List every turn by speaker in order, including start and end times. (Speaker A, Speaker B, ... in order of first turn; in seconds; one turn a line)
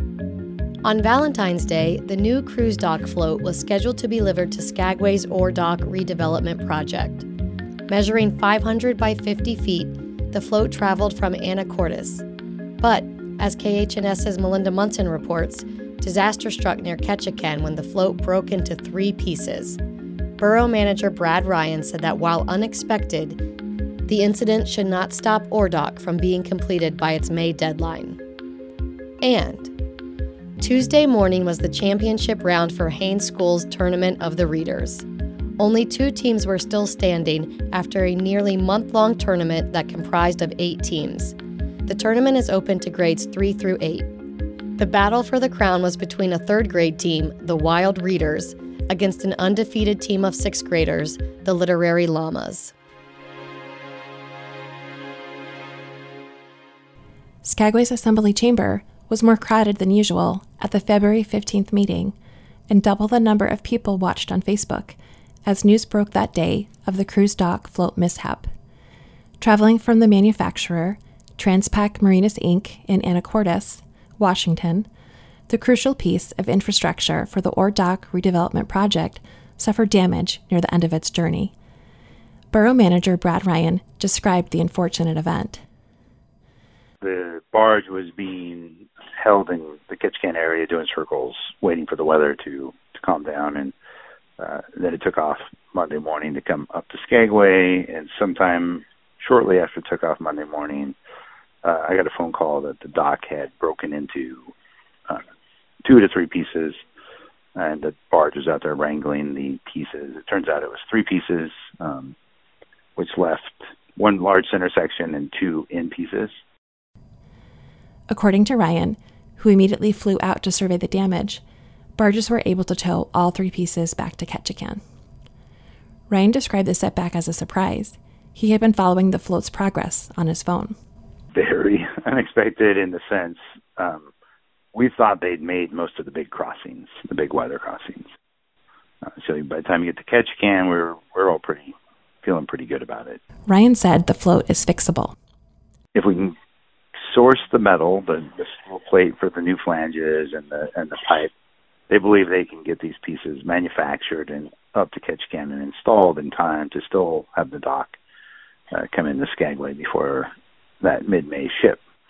Speaker A: 0.8-7.3
Speaker A: 7.9-12.2
Speaker A: 12.8-19.8
Speaker A: 20.4-23.4
Speaker A: 24.1-28.2
Speaker A: 29.2-29.7
Speaker A: 30.6-35.1
Speaker A: 35.6-44.1
Speaker A: 44.8-52.7
Speaker B: 57.4-62.2
Speaker B: 62.7-68.5
Speaker B: 69.4-74.9
Speaker B: 75.5-81.5
Speaker B: 82.5-85.6
Speaker C: 87.0-93.7
Speaker C: 94.4-101.0
Speaker C: 101.6-104.5
Speaker C: 105.8-106.8
Speaker C: 107.6-112.2
Speaker C: 113.0-116.3
Speaker B: 118.1-121.4
Speaker B: 122.0-124.8
Speaker B: 126.1-130.8
Speaker C: 131.3-134.1
Speaker C: 134.8-138.1
Speaker C: 139.0-143.2
Speaker B: 143.5-145.2
Speaker C: 145.9-146.3
Speaker C: 147.1-151.3
Speaker C: 151.9-158.0
Speaker C: 158.7-160.3
Speaker C: 160.8-161.8